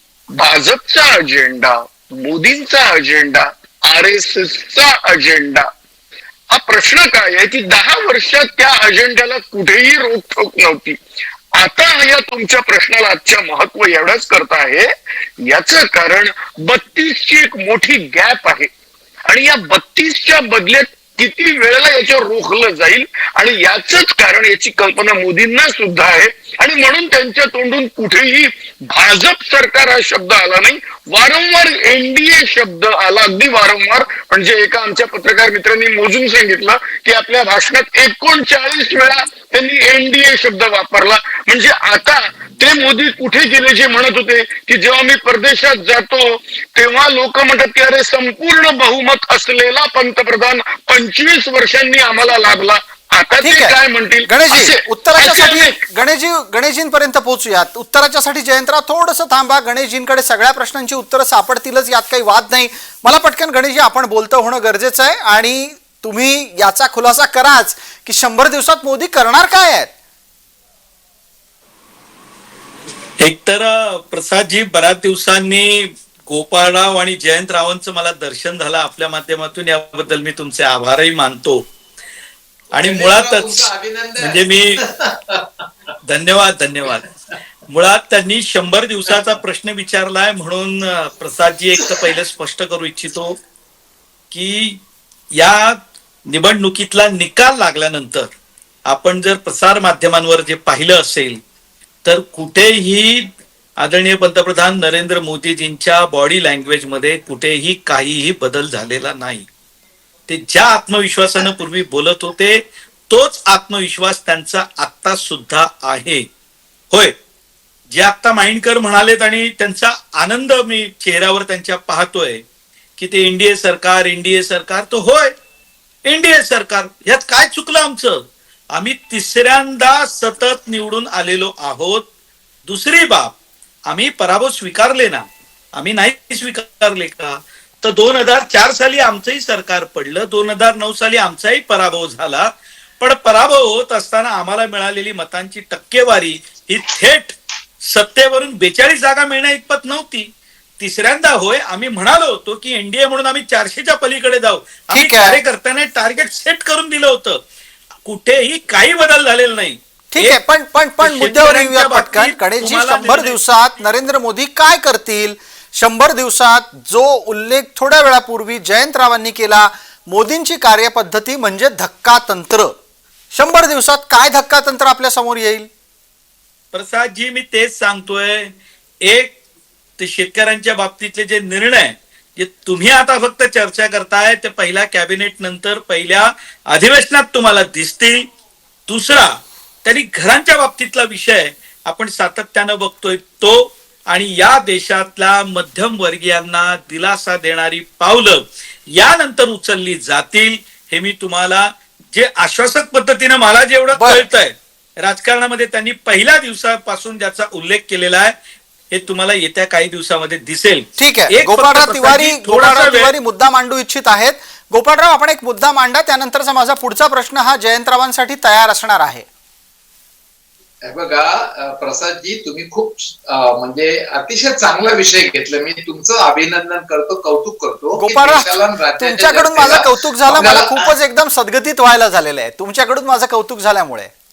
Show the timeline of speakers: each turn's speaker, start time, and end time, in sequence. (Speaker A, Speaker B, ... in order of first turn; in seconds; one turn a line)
Speaker A: 0.3-5.7
Speaker A: 6.5-11.0
Speaker A: 11.6-18.7
Speaker A: 19.3-55.8
Speaker B: 53.4-69.9
Speaker C: 73.2-81.6
Speaker C: 82.7-83.7
Speaker D: 82.7-85.6
Speaker C: 84.2-84.8
Speaker C: 86.0-87.1
Speaker C: 87.7-93.4
Speaker C: 94.3-94.8
Speaker C: 95.3-98.3
Speaker C: 98.9-101.4
Speaker C: 102.0-109.5
Speaker C: 110.3-116.2
Speaker C: 117.9-122.4
Speaker C: 123.0-125.3
Speaker C: 126.0-132.1
Speaker C: 132.7-133.3
Speaker C: 133.9-157.4
Speaker B: 154.9-155.4
Speaker C: 158.0-160.4
Speaker B: 160.1-172.7
Speaker C: 161.0-163.4
Speaker B: 173.3-175.7
Speaker C: 176.7-179.4
Speaker C: 180.0-188.3
Speaker C: 188.9-208.3
Speaker B: 203.9-204.2
Speaker C: 208.9-213.1
Speaker B: 211.0-219.2
Speaker D: 220.8-230.9
Speaker B: 228.0-234.1